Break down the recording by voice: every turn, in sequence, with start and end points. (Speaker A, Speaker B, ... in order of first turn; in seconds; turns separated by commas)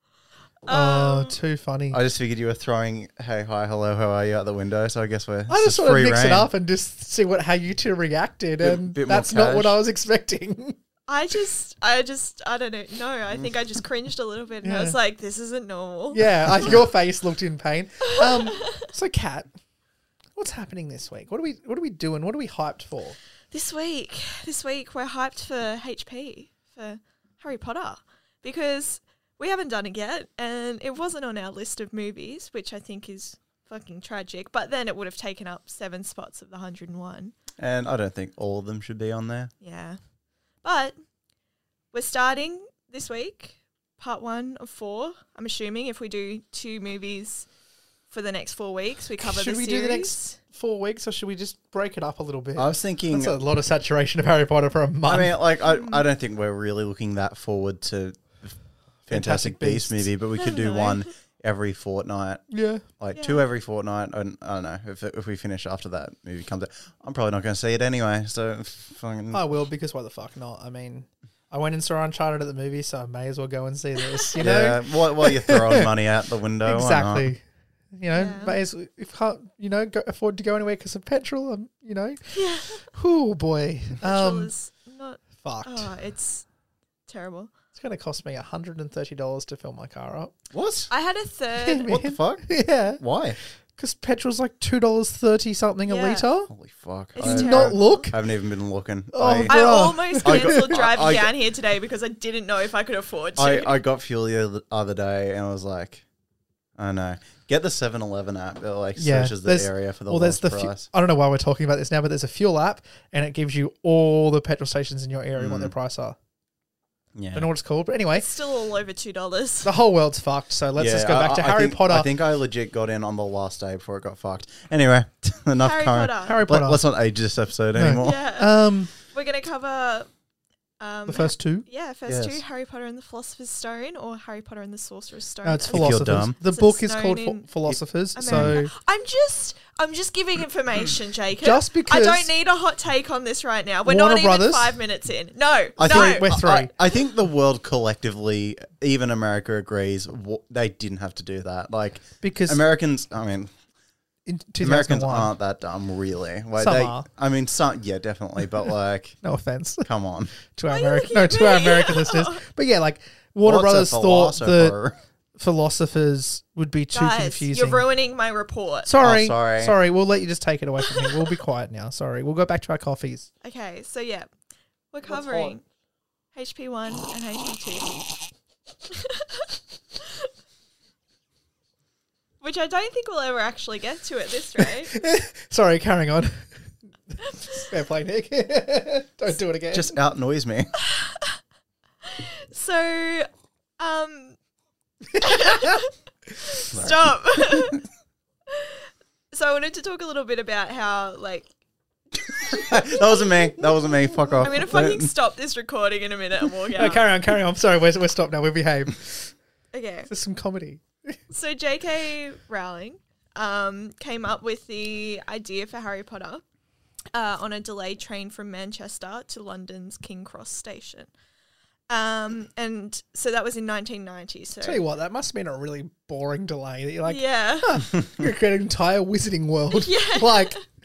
Speaker A: 0.6-1.3, Speaker B: 0.7-2.0, Speaker C: 1.9-6.5, Speaker B: 5.5-10.8, Speaker C: 8.6-9.8, Speaker A: 11.1-16.2, Speaker C: 13.3-13.5, Speaker B: 14.6-15.0, Speaker B: 16.1-19.5, Speaker A: 18.1-18.9, Speaker B: 20.4-23.2, Speaker A: 23.5-37.3, Speaker C: 37.6-39.5, Speaker A: 39.6-40.0, Speaker A: 40.6-41.0, Speaker A: 41.9-47.5, Speaker A: 48.1-50.4, Speaker B: 49.2-55.4, Speaker C: 52.5-53.4, Speaker C: 55.0-62.4, Speaker A: 55.6-56.0, Speaker B: 59.1-60.1, Speaker A: 60.4-61.0, Speaker B: 62.5-62.8, Speaker C: 63.0-69.4, Speaker A: 63.1-63.4, Speaker B: 69.3-75.9, Speaker C: 74.4-77.3, Speaker B: 76.6-77.4, Speaker B: 77.9-84.5, Speaker A: 78.1-78.6, Speaker A: 82.3-82.8, Speaker A: 84.0-86.5, Speaker B: 85.4-85.9, Speaker A: 87.1-87.5, Speaker B: 87.7-90.3, Speaker C: 90.5-90.9, Speaker A: 90.9-91.9, Speaker B: 91.5-96.5, Speaker C: 91.8-93.4, Speaker A: 95.8-96.3, Speaker C: 96.5-99.6, Speaker A: 97.2-98.0, Speaker B: 97.2-98.2, Speaker B: 99.1-100.8, Speaker A: 99.5-103.8, Speaker C: 100.2-101.3, Speaker C: 103.4-106.0, Speaker C: 106.8-110.9, Speaker B: 109.0-116.2, Speaker C: 115.3-115.7, Speaker C: 117.2-117.5, Speaker B: 117.3-118.3, Speaker A: 118.1-119.7, Speaker B: 119.6-122.1, Speaker C: 120.8-128.2, Speaker A: 125.6-126.4, Speaker B: 126.2-126.8, Speaker B: 127.7-128.9, Speaker A: 128.0-130.1, Speaker A: 130.8-137.5, Speaker B: 131.1-131.7, Speaker C: 132.1-132.4, Speaker B: 135.4-138.7, Speaker C: 135.7-136.3, Speaker C: 137.7-138.5, Speaker A: 138.2-146.3, Speaker B: 141.4-142.3, Speaker B: 143.8-144.8, Speaker C: 145.8-153.5, Speaker B: 145.8-146.7, Speaker B: 152.2-152.6, Speaker B: 154.2-155.3, Speaker C: 154.6-159.2, Speaker B: 156.6-157.1, Speaker B: 159.2-159.9, Speaker C: 159.8-160.3, Speaker B: 160.5-164.8, Speaker A: 160.7-162.4, Speaker C: 163.4-165.0, Speaker B: 165.3-167.8, Speaker A: 166.9-168.9, Speaker B: 168.8-173.3, Speaker C: 169.0-169.7, Speaker A: 170.8-171.3, Speaker A: 173.4-174.3, Speaker A: 174.9-175.6, Speaker B: 175.1-175.5, Speaker A: 176.3-178.0, Speaker A: 178.9-180.3, Speaker A: 182.4-184.9, Speaker B: 184.6-189.9, Speaker A: 187.2-187.7, Speaker C: 189.7-190.7, Speaker A: 190.8-191.4, Speaker A: 192.0-194.4, Speaker B: 195.1-195.8, Speaker A: 195.2-197.8, Speaker C: 196.7-197.8, Speaker A: 198.5-201.5, Speaker C: 202.4-205.1, Speaker A: 202.5-203.3, Speaker A: 204.4-207.0, Speaker B: 206.8-209.3, Speaker A: 209.7-210.1, Speaker B: 210.1-211.2, Speaker A: 211.3-216.4, Speaker A: 217.1-221.1, Speaker A: 221.9-224.8, Speaker B: 224.6-230.6, Speaker A: 227.1-227.8, Speaker A: 229.7-230.6